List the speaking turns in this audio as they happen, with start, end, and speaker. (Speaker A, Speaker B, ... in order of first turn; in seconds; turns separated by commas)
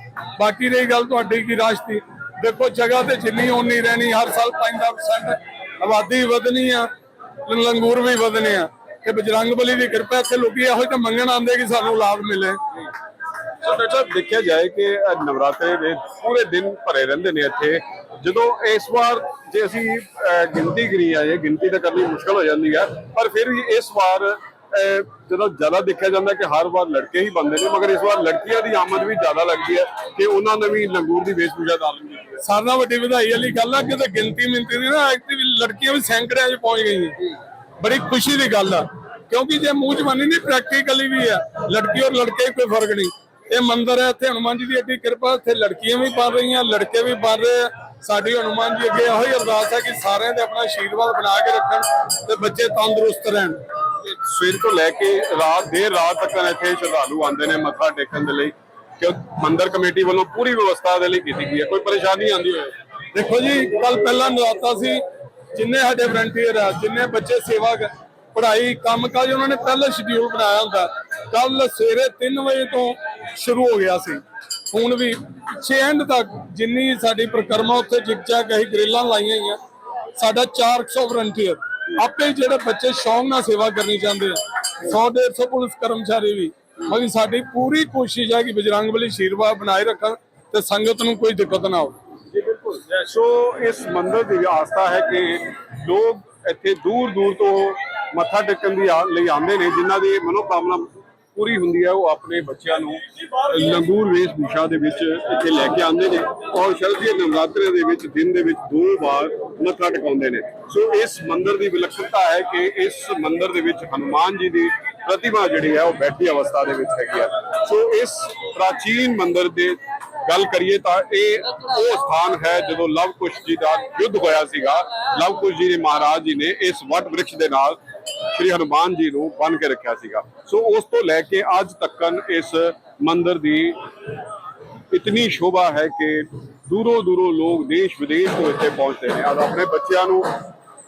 Speaker A: 0.3-6.9, Speaker A: 7.4-12.6, Speaker B: 13.6-32.4, Speaker A: 32.4-53.6, Speaker B: 54.0-62.8, Speaker A: 63.1-79.6, Speaker A: 80.1-92.0, Speaker B: 92.3-134.1, Speaker B: 134.9-140.4